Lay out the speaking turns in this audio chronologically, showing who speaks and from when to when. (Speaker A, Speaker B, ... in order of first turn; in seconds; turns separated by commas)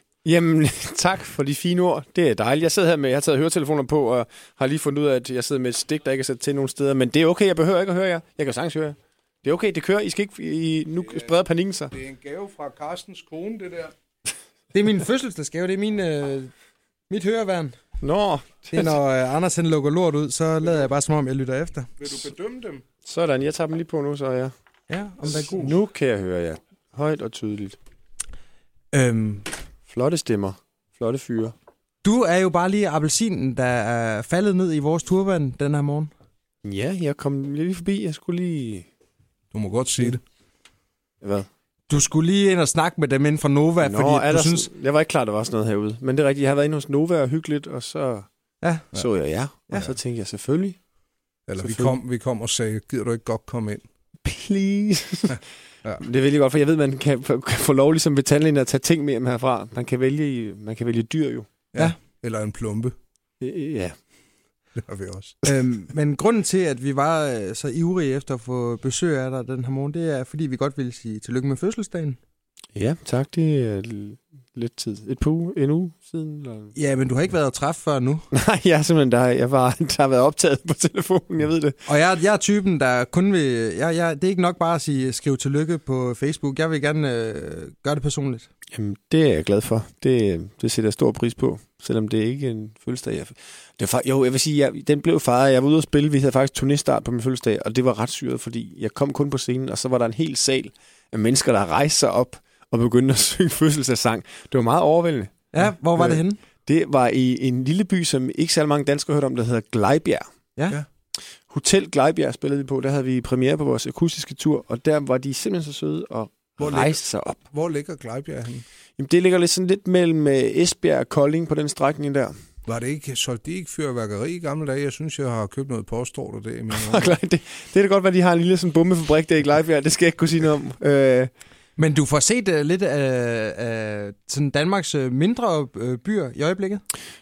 Speaker A: 0.2-11.9, Speaker B: 11.1-11.3, Speaker B: 11.9-13.9, Speaker C: 14.7-16.5, Speaker C: 17.1-17.7, Speaker A: 18.0-19.0, Speaker C: 18.7-22.2, Speaker B: 22.0-22.8, Speaker A: 23.0-24.5, Speaker C: 24.9-25.7, Speaker A: 25.2-27.8, Speaker C: 28.9-29.4, Speaker A: 29.9-31.5, Speaker C: 32.0-36.1, Speaker A: 36.6-38.9, Speaker B: 39.5-40.2, Speaker A: 41.2-41.5, Speaker C: 41.9-44.7, Speaker A: 43.8-48.3, Speaker A: 48.9-50.8, Speaker B: 51.5-53.8, Speaker A: 51.6-52.0, Speaker A: 54.2-55.4, Speaker B: 55.3-56.0, Speaker A: 56.0-61.5, Speaker B: 61.7-62.9, Speaker A: 63.4-63.9, Speaker B: 64.8-65.4, Speaker C: 65.4-72.2, Speaker A: 72.7-76.7, Speaker C: 76.7-78.2, Speaker A: 78.3-81.8, Speaker C: 81.9-88.5, Speaker A: 88.7-110.3, Speaker C: 105.5-106.4, Speaker A: 111.5-117.4, Speaker B: 116.6-117.0, Speaker B: 117.5-118.6, Speaker A: 119.0-122.3, Speaker B: 122.7-127.2, Speaker A: 126.7-131.3, Speaker C: 131.8-136.8